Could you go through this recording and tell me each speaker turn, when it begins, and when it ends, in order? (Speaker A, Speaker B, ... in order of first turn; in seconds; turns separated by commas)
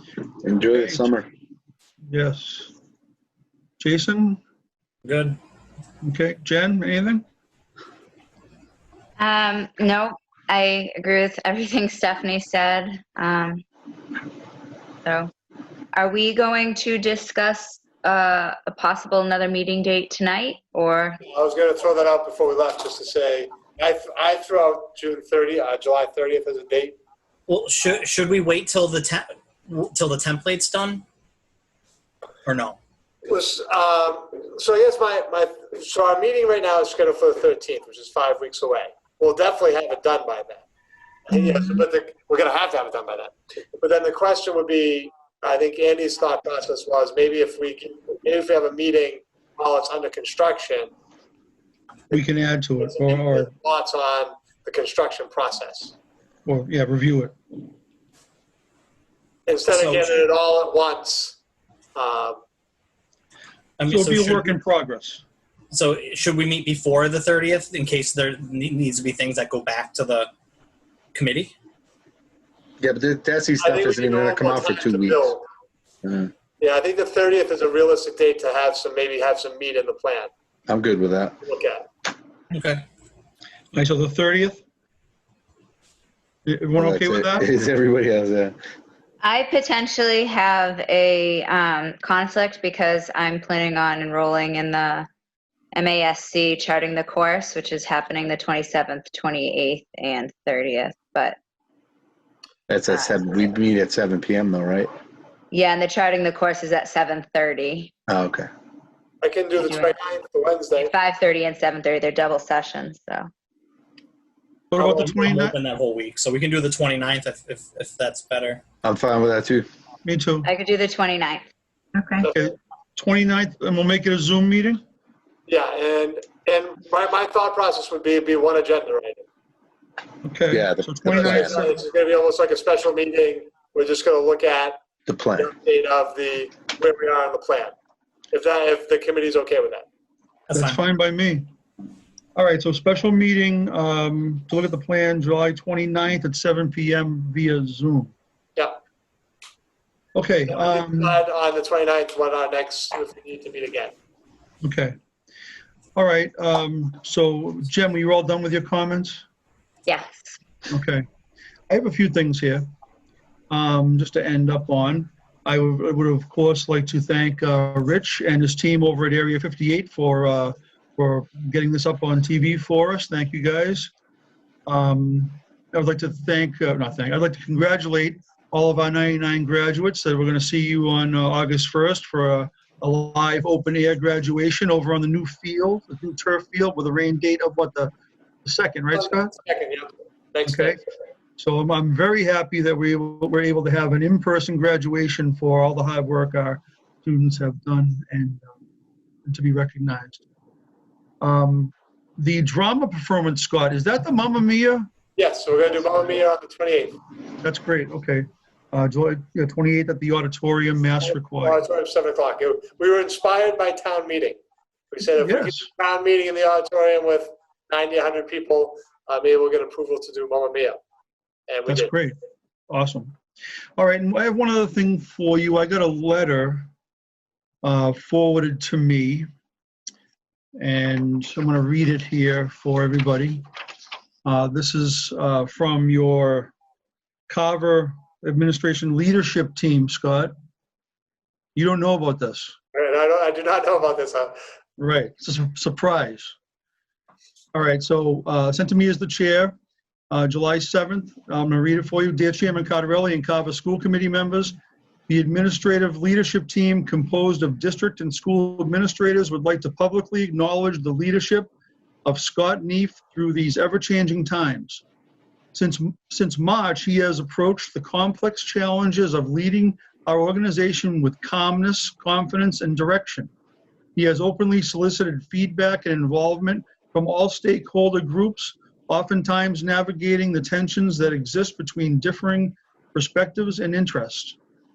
Speaker A: 0.4-1.3, Speaker B: 0.7-1.1, Speaker B: 2.1-2.7, Speaker B: 3.8-4.4, Speaker C: 5.0-5.4, Speaker B: 6.0-7.2, Speaker D: 9.2-13.6, Speaker D: 15.0-15.3, Speaker D: 15.9-21.2, Speaker E: 21.2-26.9, Speaker C: 27.5-31.0, Speaker C: 32.4-32.8, Speaker E: 33.2-40.6, Speaker E: 41.3-50.9, Speaker D: 41.3-41.8, Speaker B: 52.1-53.5, Speaker E: 52.8-55.9, Speaker B: 56.5-57.4, Speaker E: 59.5-61.4, Speaker C: 59.7-60.2, Speaker E: 61.9-62.4, Speaker C: 63.8-64.5, Speaker B: 63.9-65.2, Speaker C: 65.7-70.3, Speaker C: 71.1-71.5, Speaker A: 72.8-75.3, Speaker E: 73.6-75.5, Speaker A: 76.0-76.3, Speaker E: 76.6-80.3, Speaker A: 80.7-81.4, Speaker E: 81.4-81.8, Speaker C: 82.5-82.8, Speaker B: 83.7-84.6, Speaker B: 86.5-87.5, Speaker A: 86.8-88.5, Speaker D: 89.2-95.1, Speaker D: 95.7-101.3, Speaker A: 102.7-104.9, Speaker D: 102.9-103.4, Speaker D: 105.5-107.9, Speaker A: 108.1-108.5, Speaker E: 109.2-110.9, Speaker D: 109.6-109.9, Speaker D: 110.8-113.3, Speaker B: 114.7-115.6, Speaker C: 114.8-118.6, Speaker A: 118.8-119.7, Speaker B: 120.0-120.5, Speaker D: 120.4-121.4, Speaker D: 121.9-122.3, Speaker B: 122.3-124.8, Speaker E: 125.5-129.2, Speaker B: 130.2-131.8, Speaker A: 130.5-131.6, Speaker E: 131.1-134.8, Speaker A: 135.1-135.5, Speaker E: 135.4-137.7, Speaker E: 138.3-139.8, Speaker C: 140.5-140.8, Speaker B: 140.5-141.5, Speaker B: 142.3-148.1, Speaker B: 150.1-151.2, Speaker E: 150.5-153.9, Speaker B: 154.6-154.9, Speaker B: 155.9-159.2, Speaker D: 159.9-160.3, Speaker B: 160.7-161.1, Speaker B: 161.7-162.7, Speaker B: 163.5-173.9, Speaker B: 174.7-187.9, Speaker B: 188.4-189.3, Speaker E: 188.9-190.8, Speaker B: 190.4-190.8, Speaker B: 191.4-198.5, Speaker B: 199.2-200.2, Speaker B: 201.2-204.9, Speaker E: 205.2-207.0, Speaker B: 207.4-211.6, Speaker E: 211.1-214.4, Speaker E: 214.9-220.8, Speaker B: 215.2-215.7, Speaker E: 221.5-221.9, Speaker B: 221.7-222.2, Speaker B: 222.7-223.1, Speaker B: 223.8-226.7, Speaker B: 227.6-229.3, Speaker B: 230.6-233.4, Speaker B: 234.2-236.5, Speaker B: 237.3-240.3, Speaker B: 241.5-242.5, Speaker E: 242.7-244.4, Speaker B: 244.8-246.3, Speaker B: 247.5-249.6, Speaker B: 250.1-254.5, Speaker B: 255.1-261.5, Speaker B: 262.0-264.8, Speaker B: 265.5-273.3, Speaker B: 273.9-284.4